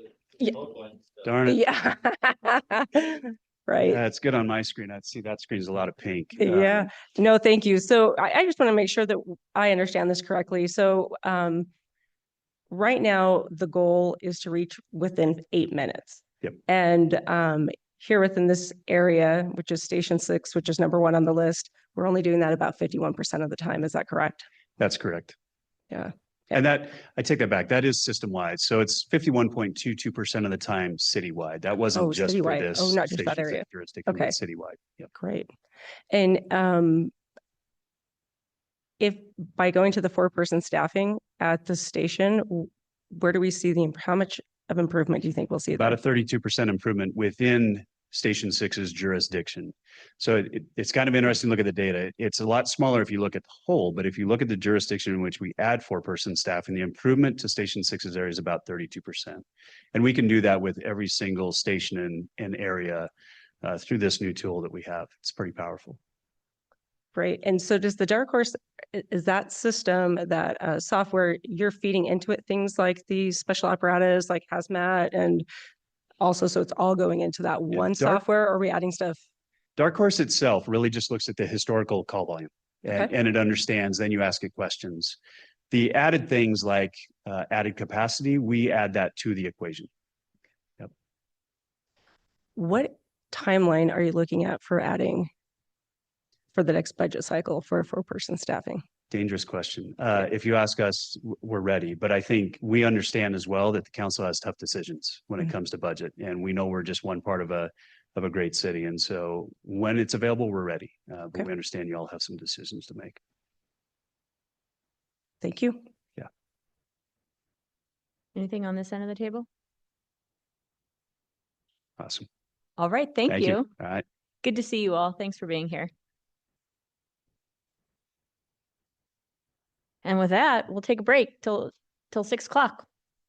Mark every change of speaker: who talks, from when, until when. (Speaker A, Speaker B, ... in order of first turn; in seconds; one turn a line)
Speaker A: 0.4-0.7
Speaker B: 1.2-1.6
Speaker A: 1.5-4.0
Speaker B: 3.8-6.9
Speaker A: 6.4-11.7
Speaker A: 12.7-24.4
Speaker B: 24.8-25.4
Speaker B: 26.5-35.1
Speaker A: 31.9-34.4
Speaker A: 35.1-35.5
Speaker A: 36.1-37.1
Speaker A: 39.0-46.0
Speaker B: 45.8-63.1
Speaker B: 63.6-66.0
Speaker A: 67.2-75.5
Speaker A: 76.2-79.2
Speaker B: 77.7-78.2
Speaker B: 79.8-85.2
Speaker B: 85.7-89.9
Speaker A: 92.6-95.3
Speaker A: 96.5-98.8
Speaker B: 99.1-113.2
Speaker A: 115.4-115.8
Speaker C: 118.3-119.5
Speaker B: 122.0-122.3
Speaker C: 122.8-123.7
Speaker B: 123.3-124.0
Speaker C: 124.4-125.9
Speaker C: 130.0-132.9